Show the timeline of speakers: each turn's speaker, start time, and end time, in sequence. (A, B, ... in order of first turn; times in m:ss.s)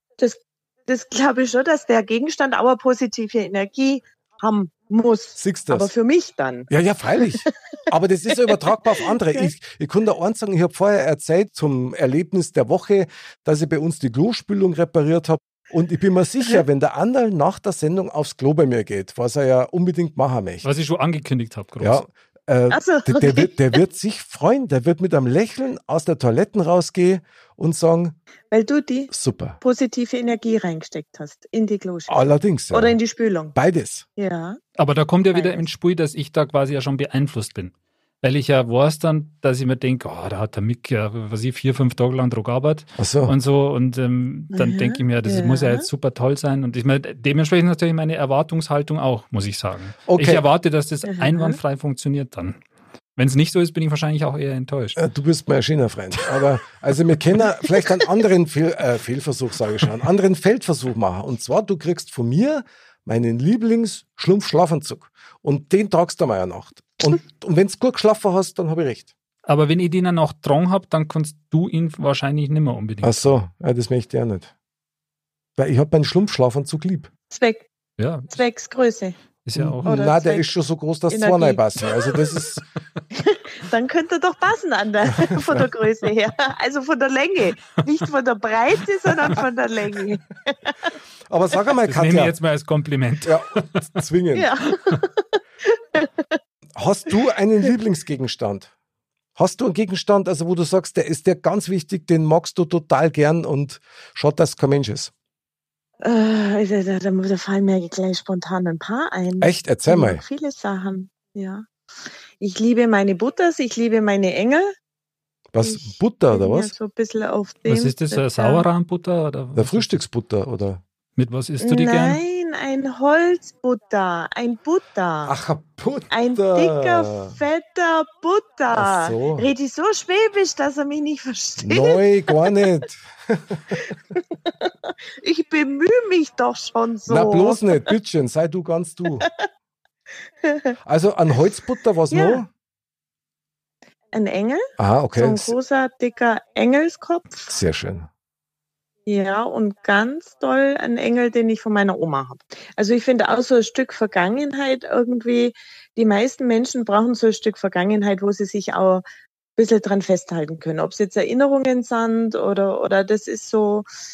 0:00.2-0:06.7 A
0:05.4-0:05.9 B
0:06.7-0:20.7 B
0:07.2-0:07.5 A
0:09.0-0:09.5 A
0:20.6-0:22.0 C
0:21.8-0:28.2 B
0:22.7-0:23.8 A
0:28.5-0:33.6 A
0:29.1-0:29.6 B
0:32.1-0:33.0 B
0:33.5-0:34.0 B
0:34.2-0:34.6 A
0:34.8-0:52.6 C
0:35.3-0:35.6 A
0:43.0-0:43.4 B
0:44.5-0:45.9 A
0:50.1-0:50.4 B
0:51.0-0:51.6 A
0:53.2-0:55.0 C
0:55.0-1:09.1 B
1:09.4-1:13.4 C
1:13.0-1:14.5 B
1:15.6-1:17.1 B
1:17.3-1:17.7 A
1:18.0-1:18.3 C
1:18.3-1:19.2 A
1:19.4-1:19.8 C
1:19.5-1:22.6 B
1:19.8-1:20.5 A
1:21.1-1:22.1 A
1:23.1-1:30.9 A
1:25.2-1:25.7 B
1:31.3-1:32.4 B
1:31.8-1:34.0 C
1:33.2-1:34.5 B
1:34.4-1:36.4 A
1:36.8-1:38.7 B
1:39.4-1:45.1 B
1:46.0-1:51.7 A
1:49.4-1:50.2 B
1:52.4-1:54.7 A
1:55.5-1:56.7 B
1:55.6-1:58.6 A
1:57.7-2:00.0 C
1:59.5-2:00.8 B
2:01.2-2:02.2 C
2:01.6-2:05.4 A
2:05.2-2:07.4 B
2:06.1-2:12.5 A
2:08.7-2:09.5 B
2:11.6-2:13.9 B
2:14.1-2:17.9 A
2:17.1-2:19.3 B
2:20.4-2:20.7 A
2:20.8-2:22.5 B
2:22.1-2:22.4 A
2:24.1-2:27.5 A
2:24.8-2:25.5 B
2:27.5-2:28.1 B
2:29.0-2:39.0 A
2:39.6-2:43.9 A